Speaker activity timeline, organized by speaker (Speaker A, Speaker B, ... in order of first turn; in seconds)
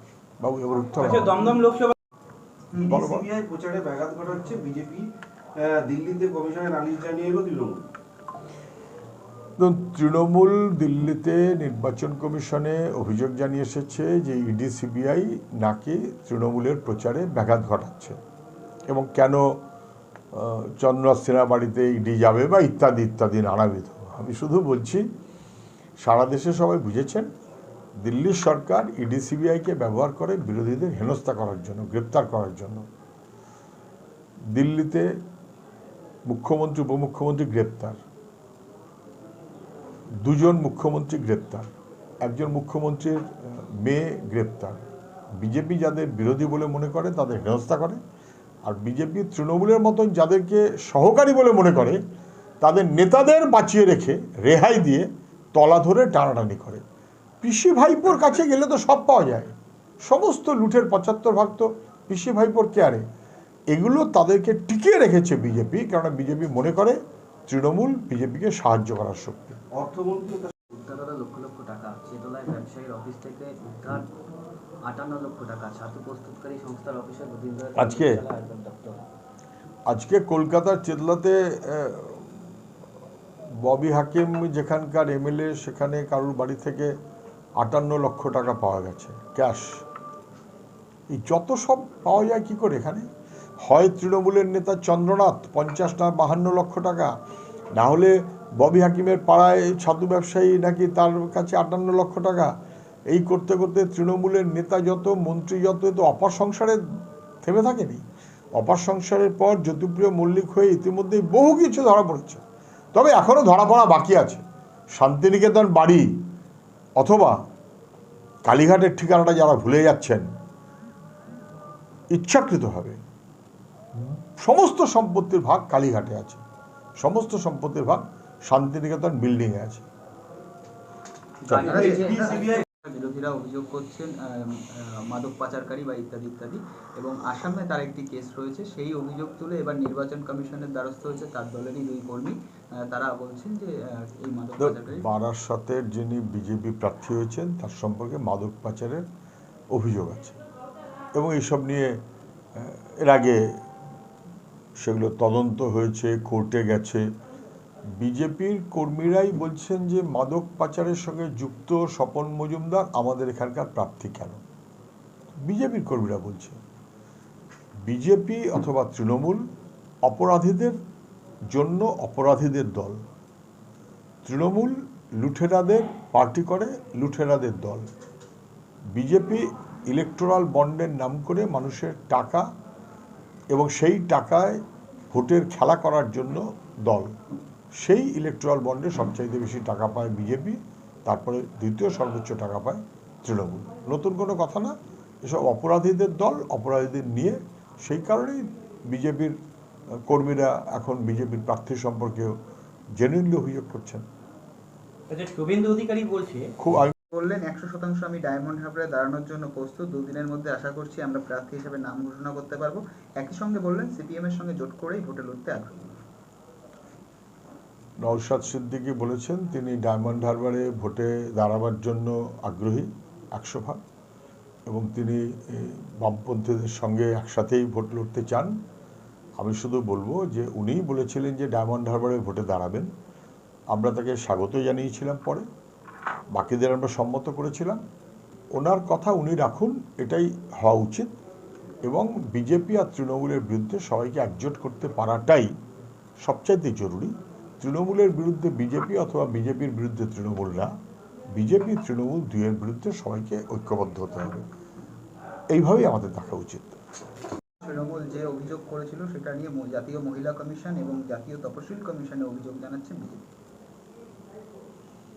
Speaker A: 0.4-1.5, 2.9-3.3, 9.6-18.2, 18.9-19.6, 20.3-25.0, 26.0-27.3, 28.0-32.9, 34.5-35.1, 36.3-38.0, 40.2-41.7, 42.2-44.8, 45.4-48.0, 48.6-52.0, 52.6-56.8, 57.4-63.0, 63.7-69.6, 77.8-78.2, 79.9-82.3, 83.6-86.9, 87.6-89.8, 91.1-93.1, 93.6-97.1, 97.8-102.5, 103.1-106.8, 107.4-108.0, 108.5-112.4, 112.9-114.4, 115.0-116.1, 117.0-117.4, 118.5-120.3, 122.1-123.0, 124.0-126.4, 127.0-129.9, 131.5-131.8, 144.6-149.0, 149.7-150.4, 151.2-151.9, 152.6-153.4, 154.8-157.1, 158.0-164.4, 165.3-166.6, 167.9-169.4, 170.0-170.8, 171.5-173.0, 174.2-177.9, 178.9-182.5, 183.5-184.6, 185.1-187.1, 187.8-199.4, 200.1-202.3, 203.0-204.1, 206.6-206.9, 218.0-223.8, 224.7-228.5, 229.4-232.9, 233.7-235.5, 236.3-237.8, 238.6-241.1, 241.8-245.5, 246.2-250.7, 251.3-254.4, 255.5-256.8
Speaker B: 1.0-1.9, 205.1-206.5
Speaker C: 2.8-7.9, 69.7-70.5, 131.7-132.5
Speaker D: 70.7-74.1, 74.9-79.0, 131.4-132.6
Speaker E: 131.6-145.1, 207.1-216.0, 257.6-263.2